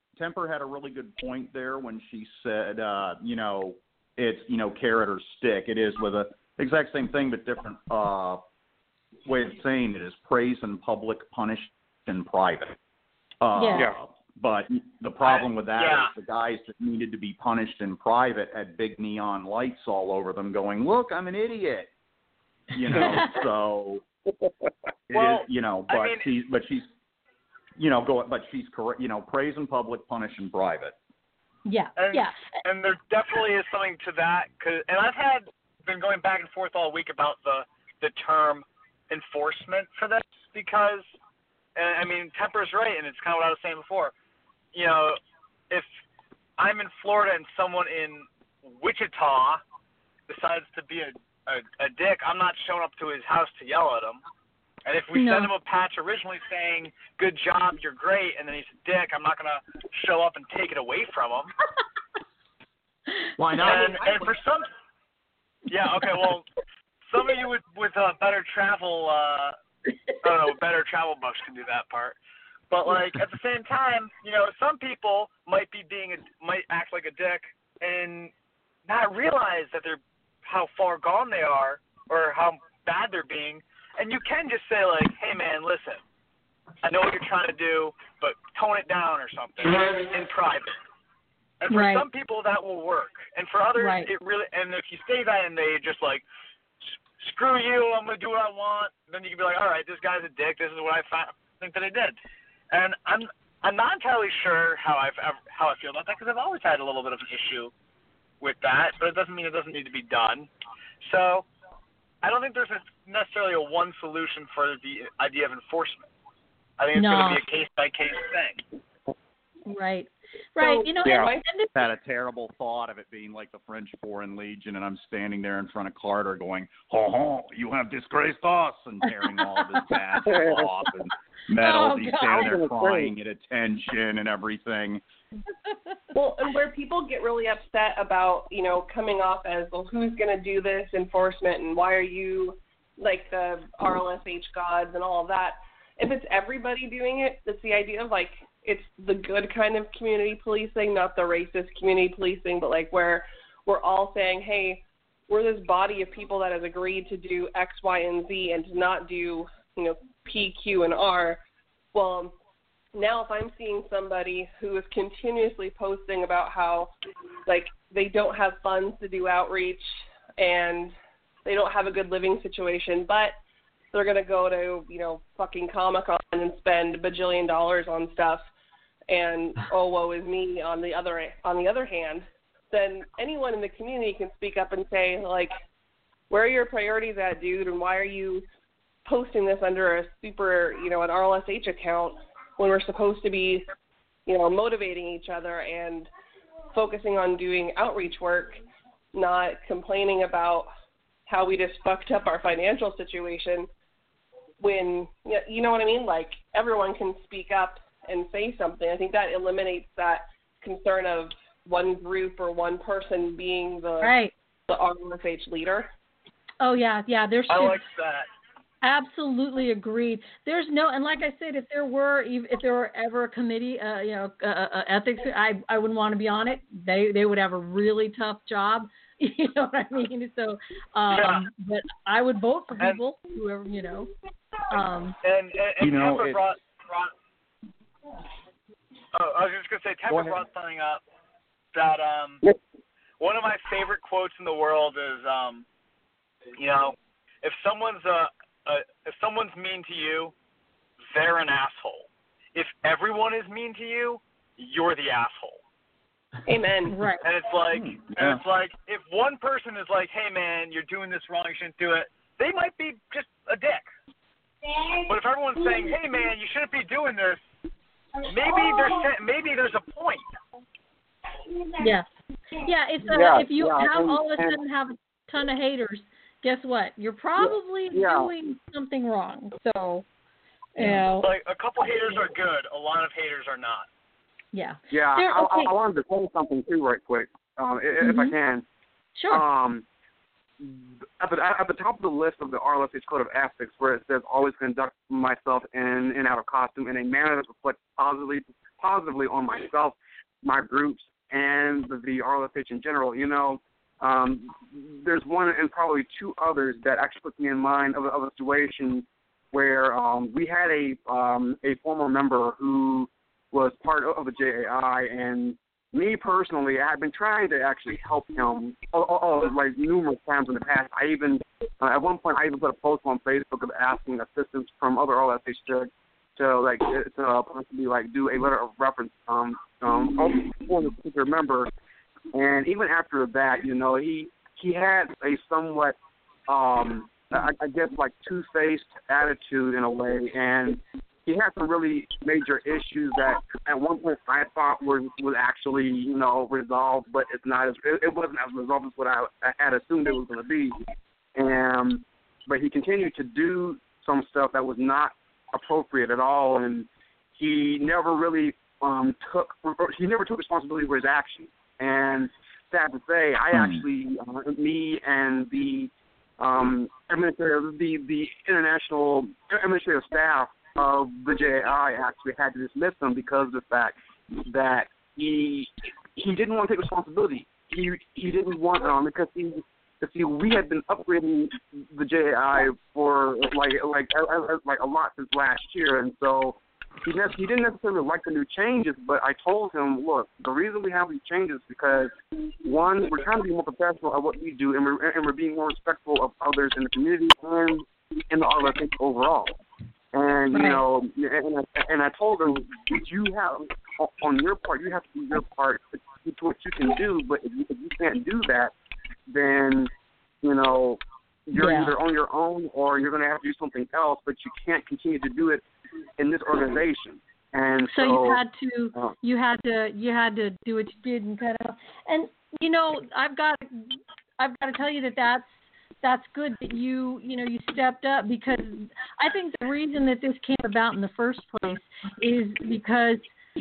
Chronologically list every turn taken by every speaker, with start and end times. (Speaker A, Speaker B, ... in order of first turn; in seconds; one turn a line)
Speaker A: 0.2-8.4
Speaker A: 9.2-12.8
Speaker A: 13.4-21.9
Speaker B: 13.6-13.8
Speaker C: 15.2-16.1
Speaker A: 22.7-24.0
Speaker B: 23.0-23.4
Speaker A: 25.1-26.9
Speaker C: 25.1-26.2
Speaker A: 27.8-30.9
Speaker B: 31.7-32.4
Speaker C: 32.0-41.0
Speaker C: 41.8-44.1
Speaker C: 44.7-45.2
Speaker C: 46.6-49.6
Speaker C: 50.3-54.2
Speaker C: 54.9-61.5
Speaker B: 55.1-55.5
Speaker A: 63.4-64.4
Speaker C: 63.6-64.7
Speaker C: 65.7-66.4
Speaker C: 67.1-69.5
Speaker C: 70.2-72.2
Speaker C: 72.7-78.3
Speaker C: 78.9-86.0
Speaker C: 86.8-90.8
Speaker C: 91.6-96.2
Speaker B: 91.7-92.0
Speaker B: 93.8-94.1
Speaker C: 97.2-102.2
Speaker C: 102.7-107.7
Speaker C: 108.4-110.5
Speaker C: 111.0-111.5
Speaker C: 112.2-116.1
Speaker C: 116.8-118.6
Speaker B: 117.0-117.4
Speaker B: 119.7-121.7
Speaker D: 120.6-121.4
Speaker E: 121.0-121.3
Speaker A: 121.7-135.0
Speaker E: 130.3-130.6
Speaker B: 131.6-132.6
Speaker E: 132.2-133.1
Speaker D: 136.1-161.4
Speaker D: 161.9-162.3
Speaker D: 162.9-166.9
Speaker D: 167.4-169.8
Speaker D: 170.4-170.9
Speaker D: 171.4-173.3
Speaker D: 173.9-178.4
Speaker D: 179.1-185.5
Speaker D: 186.3-188.4
Speaker D: 189.0-193.7
Speaker D: 194.3-196.1
Speaker D: 196.7-198.6
Speaker D: 199.1-200.7
Speaker D: 201.3-203.7
Speaker D: 204.6-214.2
Speaker B: 214.0-214.3
Speaker D: 214.7-215.9
Speaker B: 216.6-217.8
Speaker C: 217.5-218.3
Speaker B: 218.8-234.1
Speaker C: 231.1-231.5
Speaker B: 234.7-235.2
Speaker C: 235.2-237.1
Speaker A: 235.8-236.4
Speaker C: 239.1-241.0
Speaker A: 240.1-240.4
Speaker C: 241.7-242.4
Speaker C: 243.2-245.6
Speaker C: 246.6-250.3
Speaker C: 251.1-255.6
Speaker D: 256.4-257.0
Speaker B: 256.9-257.2
Speaker C: 257.2-263.9
Speaker A: 257.7-258.4
Speaker C: 264.9-267.4
Speaker C: 268.2-270.2
Speaker B: 271.8-272.1
Speaker B: 272.6-280.0
Speaker E: 273.1-274.6
Speaker E: 277.4-278.3
Speaker B: 280.8-281.3
Speaker C: 281.2-283.9
Speaker B: 284.5-285.7
Speaker E: 284.9-288.6
Speaker B: 288.0-288.3
Speaker B: 289.1-289.4
Speaker E: 289.3-289.8
Speaker E: 290.6-331.7
Speaker E: 332.3-336.0
Speaker E: 336.5-350.8
Speaker E: 351.4-392.1
Speaker A: 363.5-363.8
Speaker E: 392.6-399.5
Speaker E: 400.1-408.7
Speaker B: 400.5-400.8
Speaker E: 409.3-409.9
Speaker E: 410.4-415.6
Speaker B: 411.5-411.9
Speaker E: 416.2-418.4
Speaker B: 417.9-433.3